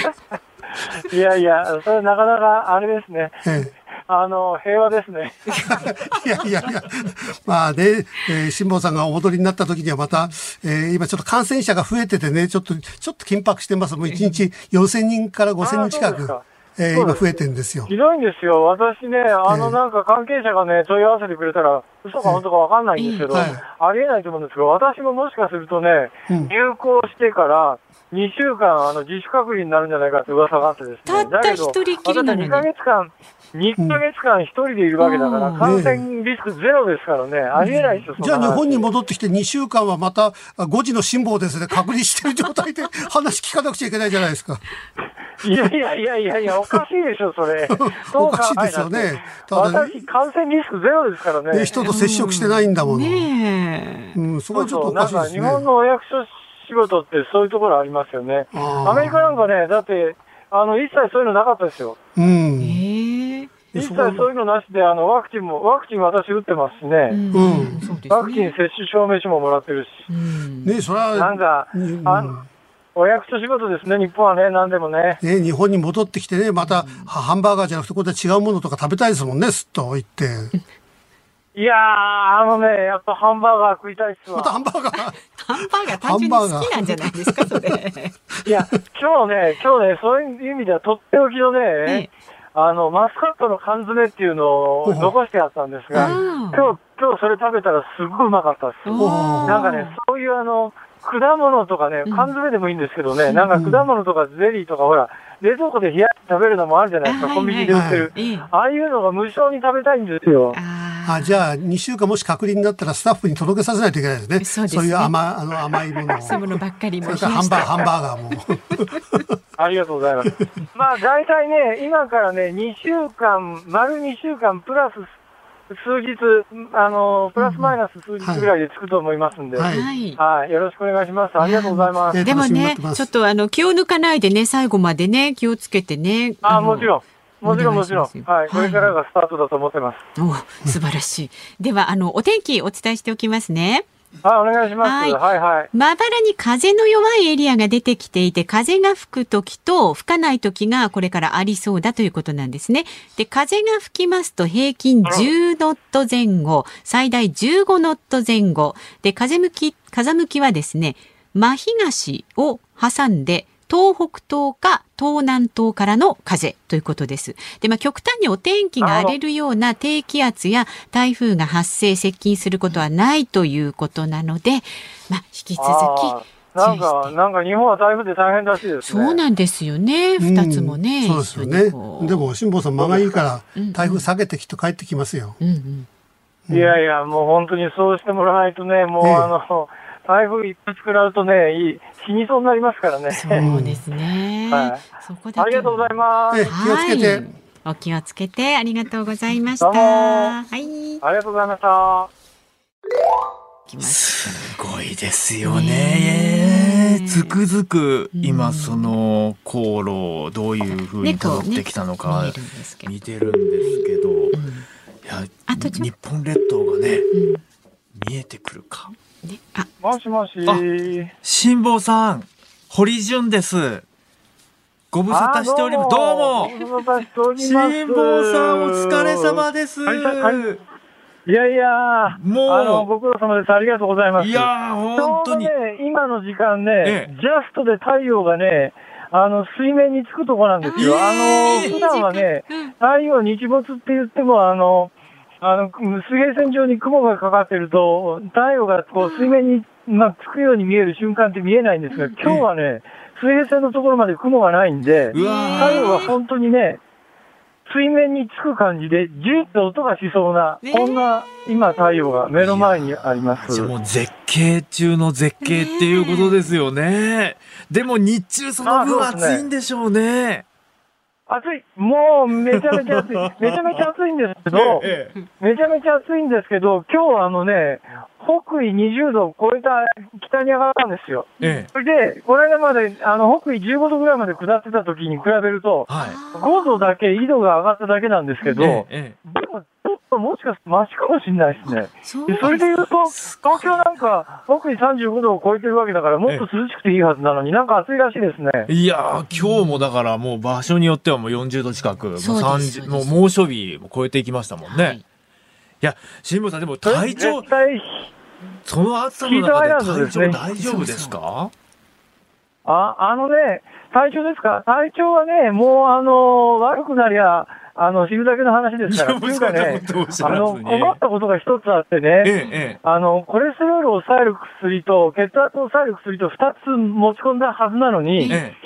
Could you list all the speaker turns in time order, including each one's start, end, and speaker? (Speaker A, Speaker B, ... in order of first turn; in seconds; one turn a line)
Speaker A: 0.9-3.4
Speaker B: 3.4-3.7
Speaker A: 4.1-5.7
Speaker C: 5.5-6.2
Speaker B: 5.7-17.9
Speaker C: 14.1-14.4
Speaker A: 15.6-17.3
Speaker A: 17.9-38.8
Speaker B: 19.5-19.8
Speaker C: 23.0-23.5
Speaker B: 23.3-23.6
Speaker C: 31.1-32.7
Speaker C: 35.0-35.8
Speaker B: 35.6-36.0
Speaker C: 37.6-38.0
Speaker B: 38.2-44.6
Speaker A: 45.4-51.9
Speaker B: 47.7-50.0
Speaker B: 51.5-53.3
Speaker C: 51.8-54.2
Speaker B: 54.1-55.6
Speaker A: 54.5-62.0
Speaker B: 58.5-59.2
Speaker B: 62.2-62.8
Speaker C: 62.6-63.5
Speaker B: 63.7-64.3
Speaker A: 63.8-67.2
Speaker C: 67.1-68.5
Speaker B: 67.3-67.8
Speaker A: 68.1-70.1
Speaker C: 70.1-70.8
Speaker B: 70.6-72.5
Speaker A: 71.1-72.3
Speaker A: 73.0-75.2
Speaker B: 75.2-80.5
Speaker C: 76.6-77.1
Speaker A: 81.6-84.6
Speaker B: 84.3-87.8
Speaker C: 85.4-88.1
Speaker A: 88.5-110.6
Speaker C: 91.8-92.1
Speaker B: 94.8-95.2
Speaker B: 95.9-96.2
Speaker C: 96.0-96.7
Speaker C: 98.8-100.0
Speaker B: 99.0-99.7
Speaker C: 102.1-102.3
Speaker C: 103.2-103.5
Speaker B: 103.5-103.9
Speaker C: 107.0-108.5
Speaker B: 107.7-108.1
Speaker C: 110.5-111.4
Speaker B: 111.1-119.3
Speaker C: 114.4-115.2
Speaker C: 116.0-117.9
Speaker A: 119.6-125.1
Speaker A: 125.7-132.3
Speaker C: 127.4-127.8
Speaker B: 128.2-128.5
Speaker B: 129.6-129.9
Speaker C: 129.7-130.2
Speaker C: 131.4-136.9
Speaker B: 132.1-133.1
Speaker A: 136.4-140.0
Speaker C: 137.4-138.9
Speaker C: 140.2-143.8
Speaker A: 144.2-145.7
Speaker C: 144.8-145.2
Speaker C: 145.7-177.2
Speaker A: 155.1-155.3
Speaker A: 168.8-169.2
Speaker A: 175.6-179.2
Speaker C: 178.8-182.3
Speaker B: 180.2-185.4
Speaker C: 183.6-184.1
Speaker C: 185.4-185.9
Speaker B: 186.5-186.8
Speaker A: 186.5-193.5
Speaker B: 189.0-189.3
Speaker C: 193.1-195.9
Speaker B: 193.4-193.8
Speaker A: 194.5-194.8
Speaker A: 195.4-196.5
Speaker B: 196.3-197.2
Speaker C: 196.4-201.0
Speaker A: 199.6-200.4
Speaker A: 201.0-202.1
Speaker C: 203.7-204.4
Speaker D: 203.8-214.4
Speaker C: 205.4-207.4
Speaker C: 208.1-208.9
Speaker C: 210.7-212.9
Speaker C: 213.6-214.7
Speaker D: 215.1-217.1
Speaker C: 215.5-215.9
Speaker C: 217.1-217.4
Speaker D: 217.9-218.9
Speaker C: 219.2-219.7
Speaker A: 219.8-221.1
Speaker D: 221.2-223.8
Speaker D: 224.9-226.6
Speaker A: 225.1-230.5
Speaker D: 227.4-230.6
Speaker A: 231.2-256.8
Speaker D: 232.1-232.9
Speaker D: 234.2-235.5
Speaker D: 236.8-237.1
Speaker C: 240.6-242.7
Speaker D: 240.8-241.8
Speaker C: 249.0-249.3
Speaker D: 255.1-256.2
Speaker C: 255.1-256.1
Speaker A: 257.7-263.7
Speaker C: 260.6-261.1
Speaker D: 262.4-270.4
Speaker C: 265.4-266.5
Speaker A: 268.6-269.4
Speaker A: 271.3-298.7
Speaker D: 272.5-273.9
Speaker D: 274.5-275.1
Speaker D: 281.4-281.7
Speaker D: 285.9-286.2
Speaker C: 286.0-286.9
Speaker C: 288.4-288.7
Speaker D: 288.6-289.2
Speaker C: 291.7-292.7
Speaker D: 298.7-305.0
Speaker C: 299.3-299.8
Speaker C: 302.2-303.2
Speaker C: 304.6-305.0
Speaker D: 305.8-307.5
Speaker A: 306.8-308.1
Speaker D: 308.7-311.5
Speaker A: 309.2-310.4
Speaker C: 310.6-311.1
Speaker A: 312.6-322.3
Speaker D: 318.9-321.0
Speaker D: 322.2-322.8
Speaker A: 322.8-328.4
Speaker C: 328.2-328.4
Speaker D: 328.3-328.6